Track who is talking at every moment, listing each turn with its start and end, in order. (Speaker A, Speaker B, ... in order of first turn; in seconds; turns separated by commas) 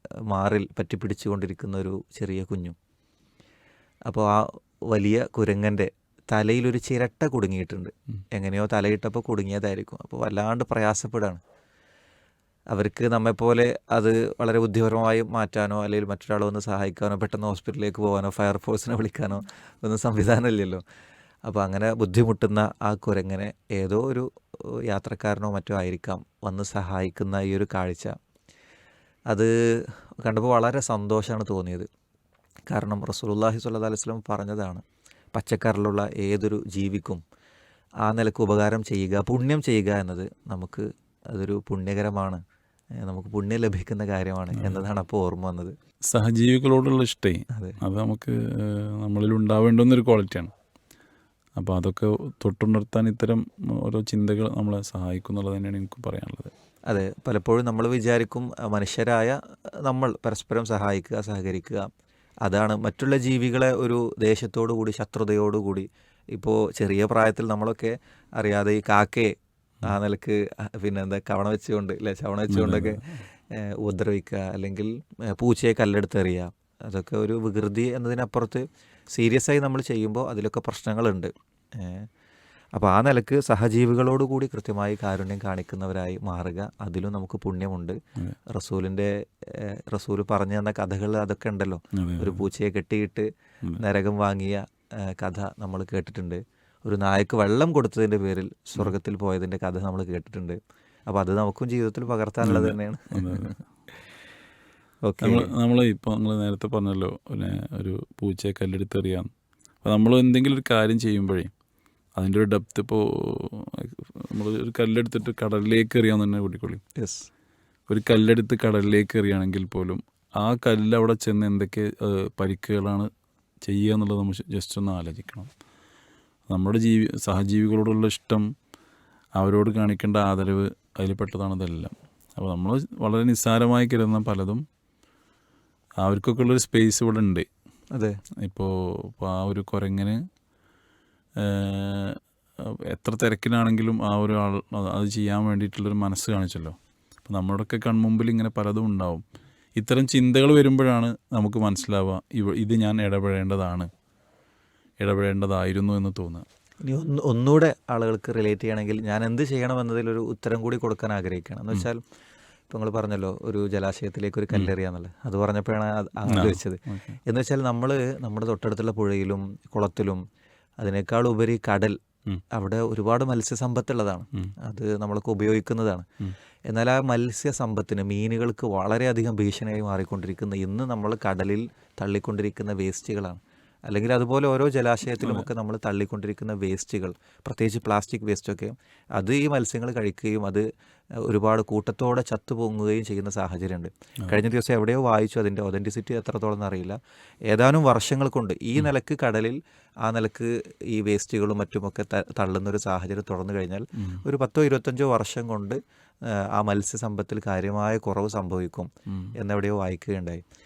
Speaker A: 0.3-2.8, Speaker A: 4.1-11.4, Speaker A: 12.7-20.8, Speaker A: 21.5-28.2, Speaker A: 29.3-31.9, Speaker A: 32.7-34.8, Speaker A: 35.3-37.2, Speaker A: 38.0-42.4, Speaker A: 43.0-45.7, Speaker B: 46.1-50.5, Speaker A: 47.5-47.8, Speaker B: 51.6-56.5, Speaker A: 56.9-61.9, Speaker A: 62.4-82.1, Speaker B: 72.5-73.2, Speaker A: 82.8-88.0, Speaker A: 88.5-103.6, Speaker B: 91.9-92.4, Speaker B: 102.4-103.6, Speaker A: 105.0-105.5, Speaker B: 105.2-109.3, Speaker B: 109.8-111.5, Speaker B: 112.2-116.8, Speaker A: 117.0-117.3, Speaker B: 117.9-123.1, Speaker B: 123.6-125.5, Speaker B: 126.5-128.5, Speaker B: 129.4-134.6, Speaker B: 136.0-137.5, Speaker B: 138.4-140.2, Speaker B: 141.4-149.2, Speaker B: 149.8-153.9, Speaker B: 155.0-156.5, Speaker A: 156.9-162.0, Speaker A: 162.7-170.2, Speaker B: 166.3-167.2, Speaker A: 170.8-172.0, Speaker A: 172.5-176.1, Speaker A: 176.7-190.6, Speaker B: 185.2-185.5, Speaker A: 191.2-197.0, Speaker A: 197.5-205.8, Speaker B: 204.0-204.2, Speaker A: 206.3-210.4, Speaker B: 209.1-209.3